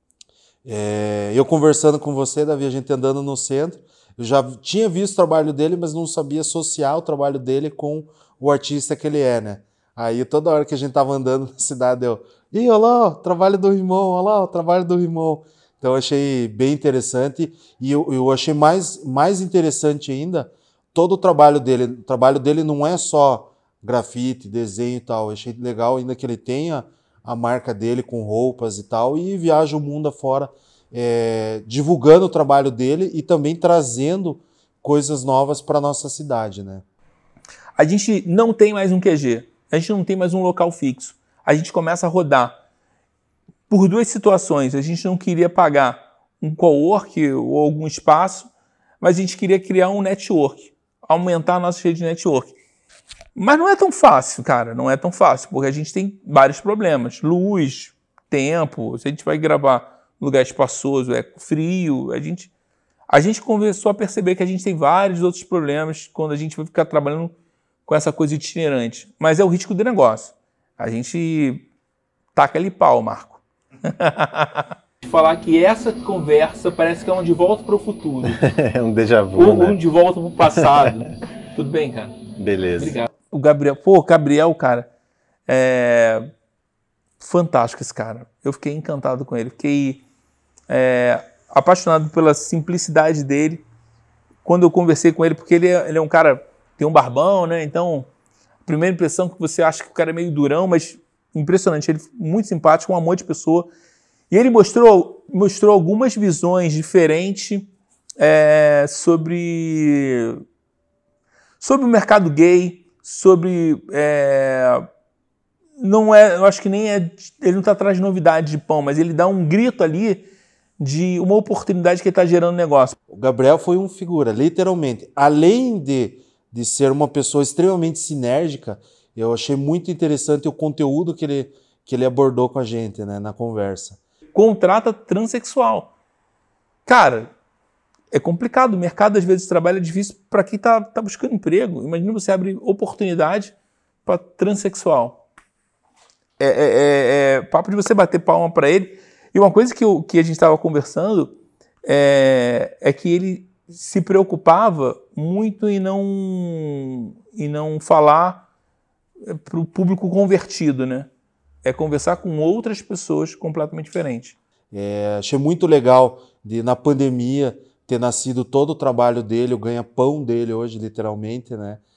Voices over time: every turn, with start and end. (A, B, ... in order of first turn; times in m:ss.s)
0:00.6-0:36.8 A
0:37.8-0:42.5 B
0:43.7-0:48.5 B
0:49.0-0:52.5 B
0:53.3-1:02.5 B
1:03.1-1:07.3 B
1:07.9-1:11.6 B
1:12.3-1:18.4 B
1:18.3-1:19.8 C
1:19.3-1:22.2 B
1:20.6-1:21.0 C
1:22.4-1:23.0 C
1:22.8-1:24.9 B
1:25.5-1:26.3 B
1:27.2-1:30.0 B
1:30.7-1:33.6 B
1:34.4-1:38.1 B
1:38.6-1:43.7 B
1:44.3-1:47.7 B
1:48.2-1:50.4 B
1:51.6-1:54.8 B
1:55.8-2:00.3 B
2:00.8-2:03.0 B
2:03.1-2:14.0 A
2:14.3-2:15.9 B
2:16.8-2:17.3 B
2:18.1-2:23.5 B
2:24.0-2:25.2 B
2:26.4-2:31.3 B
2:31.8-2:38.4 B
2:39.2-2:41.1 B
2:41.6-2:44.4 B
2:44.7-2:51.8 A